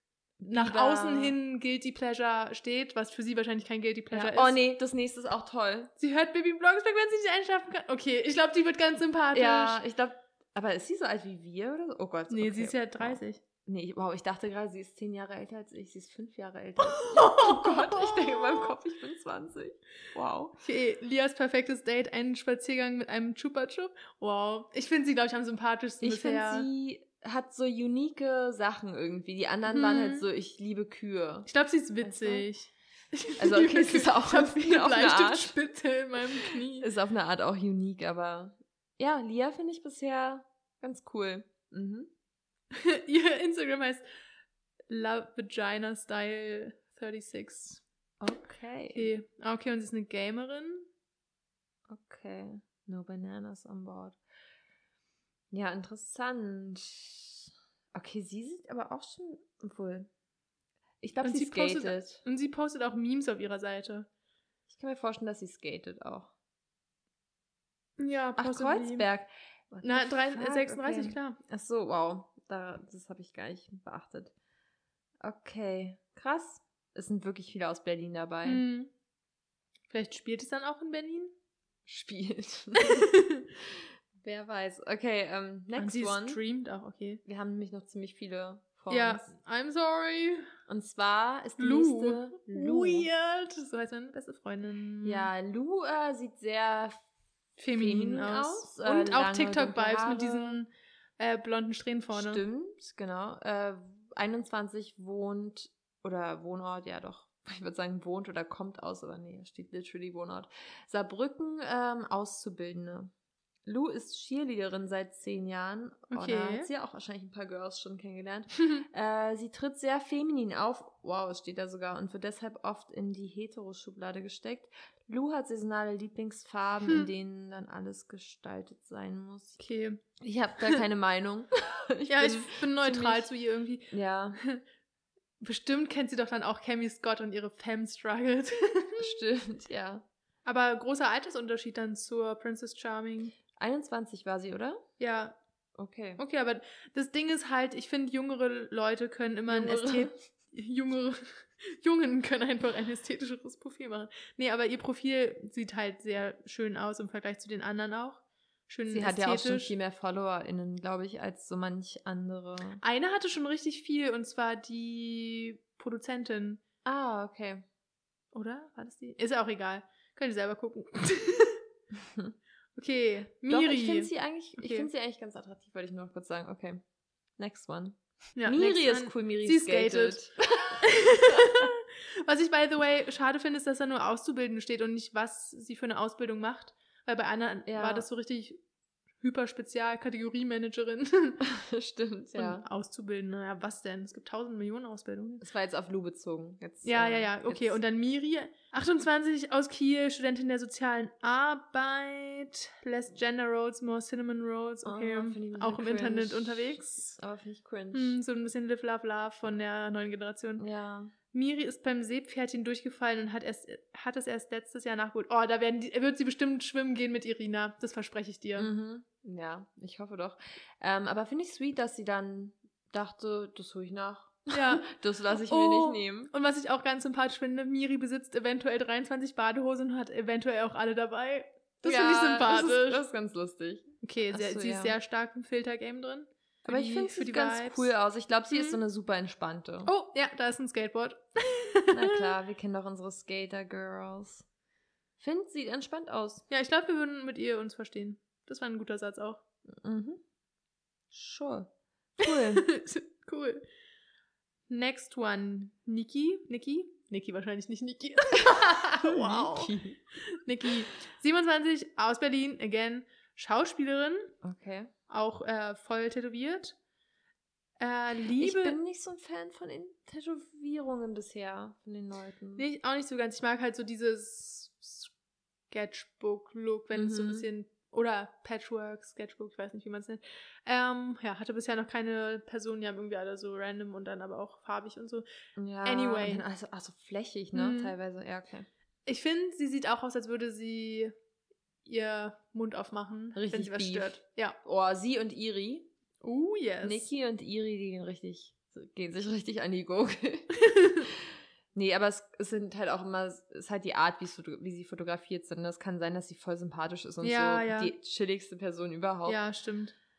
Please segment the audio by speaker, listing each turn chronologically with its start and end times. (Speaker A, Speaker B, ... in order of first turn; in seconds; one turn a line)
Speaker A: 0.4-1.4
Speaker B: 0.5-4.6
Speaker A: 4.1-5.9
Speaker B: 6.0-9.8
Speaker A: 9.3-20.6
Speaker B: 12.3-13.4
Speaker B: 16.9-18.7
Speaker B: 20.6-26.7
Speaker A: 26.0-31.5
Speaker B: 29.7-30.3
Speaker B: 31.5-36.9
Speaker A: 32.0-32.5
Speaker A: 33.4-35.6
Speaker A: 36.8-42.1
Speaker B: 42.7-44.0
Speaker B: 44.9-47.8
Speaker A: 48.2-49.1
Speaker B: 48.9-50.9
Speaker A: 51.9-54.2
Speaker A: 55.5-60.1
Speaker A: 61.0-62.2
Speaker B: 61.2-64.1
Speaker A: 64.7-66.3
Speaker B: 68.0-69.1
Speaker A: 68.4-74.3
Speaker B: 69.8-71.4
Speaker A: 75.2-78.6
Speaker B: 78.4-78.9
Speaker B: 79.9-81.3
Speaker A: 81.9-86.4
Speaker B: 82.8-83.5
Speaker B: 85.8-87.2
Speaker A: 87.3-89.3
Speaker B: 88.9-90.5
Speaker A: 90.7-93.1
Speaker B: 91.6-95.3
Speaker A: 95.0-97.0
Speaker A: 97.6-100.6
Speaker B: 97.6-102.4
Speaker A: 102.1-113.1
Speaker A: 113.7-129.6
Speaker B: 116.1-116.7
Speaker B: 129.6-130.0
Speaker A: 130.2-133.3
Speaker B: 132.1-134.6
Speaker A: 133.9-134.4
Speaker B: 135.4-139.2
Speaker A: 139.0-140.1
Speaker B: 140.4-143.3
Speaker A: 143.5-144.8
Speaker B: 145.0-145.4
Speaker A: 145.8-146.2
Speaker B: 146.2-159.7
Speaker A: 149.5-150.2
Speaker A: 158.9-162.8
Speaker B: 162.8-166.6
Speaker A: 166.8-167.7
Speaker B: 168.3-171.6
Speaker A: 171.9-172.3
Speaker B: 172.8-174.9
Speaker A: 173.5-176.8
Speaker A: 177.4-181.7
Speaker B: 178.4-180.2
Speaker B: 180.8-188.6
Speaker A: 187.7-188.1
Speaker B: 189.2-191.5
Speaker A: 191.4-192.7
Speaker B: 192.3-195.4
Speaker A: 195.4-197.8
Speaker B: 196.8-207.2
Speaker A: 204.8-208.2
Speaker B: 207.9-210.7
Speaker A: 210.6-211.1
Speaker B: 211.3-218.7
Speaker A: 218.6-226.3
Speaker B: 224.5-233.0
Speaker A: 231.8-235.0
Speaker B: 234.0-237.9
Speaker A: 236.7-239.9
Speaker B: 238.5-238.8
Speaker B: 239.8-242.3
Speaker A: 241.9-244.5
Speaker A: 245.2-246.4
Speaker B: 246.5-249.4
Speaker A: 249.7-250.2
Speaker A: 251.1-252.7
Speaker B: 252.2-253.6
Speaker B: 254.7-259.8
Speaker A: 258.5-260.0
Speaker B: 260.3-264.3
Speaker A: 264.4-264.9
Speaker B: 265.1-266.8
Speaker B: 267.8-268.8
Speaker A: 268.4-272.6
Speaker B: 272.6-275.1
Speaker B: 275.7-285.2
Speaker A: 276.9-277.5
Speaker A: 285.6-288.7
Speaker B: 285.8-286.4
Speaker B: 287.5-287.9
Speaker B: 289.1-291.1
Speaker B: 291.9-294.6
Speaker A: 293.4-295.9
Speaker B: 296.2-297.1
Speaker A: 296.8-300.5
Speaker B: 300.6-301.1
Speaker A: 301.1-309.4
Speaker B: 307.2-307.9
Speaker B: 309.3-309.9